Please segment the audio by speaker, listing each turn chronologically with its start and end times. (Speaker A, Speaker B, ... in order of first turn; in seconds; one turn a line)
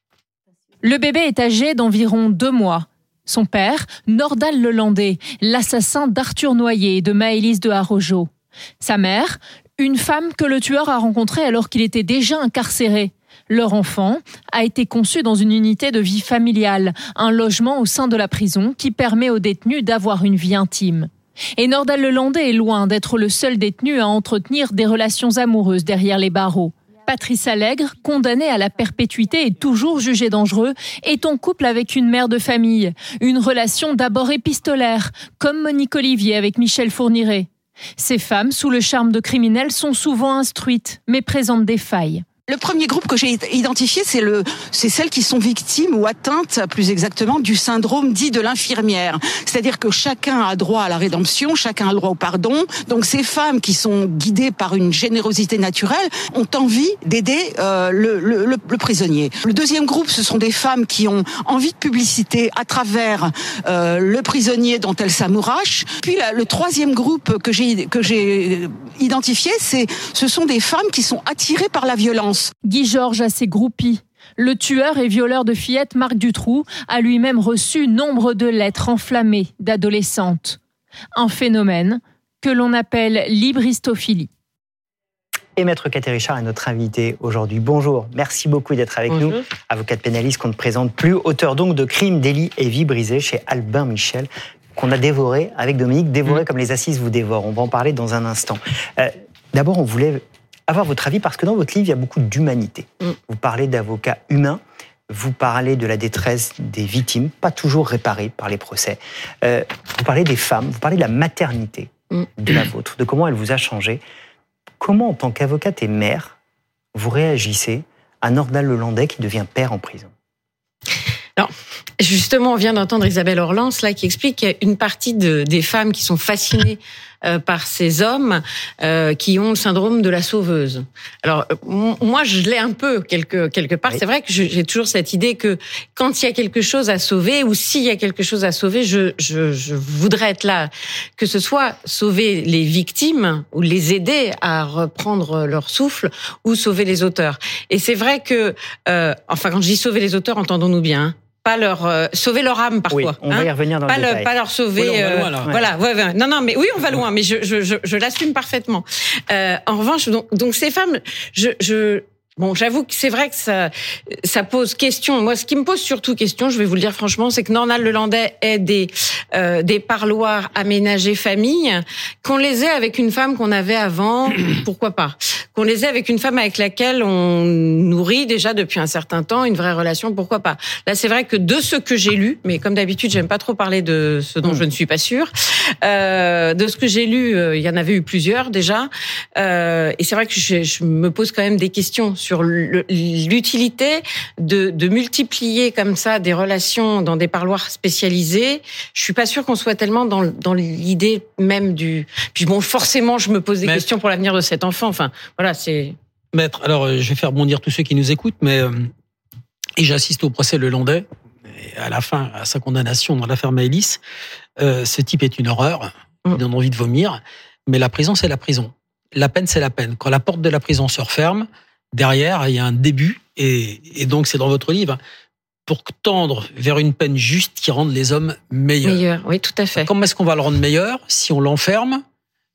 Speaker A: 0.8-8.3
Speaker A: 8.8-42.2
Speaker B: 42.5-72.5
Speaker A: 72.6-80.6
Speaker A: 81.2-84.3
Speaker C: 85.6-114.0
Speaker D: 89.1-89.4
Speaker C: 114.8-116.3
Speaker C: 117.0-120.1
Speaker D: 121.4-185.3
Speaker C: 152.9-154.3
Speaker E: 154.8-155.5
Speaker D: 185.8-205.9
Speaker E: 206.3-208.9
Speaker E: 209.8-214.0
Speaker E: 214.6-225.0
Speaker E: 225.7-229.1
Speaker D: 228.8-229.9
Speaker E: 229.8-232.0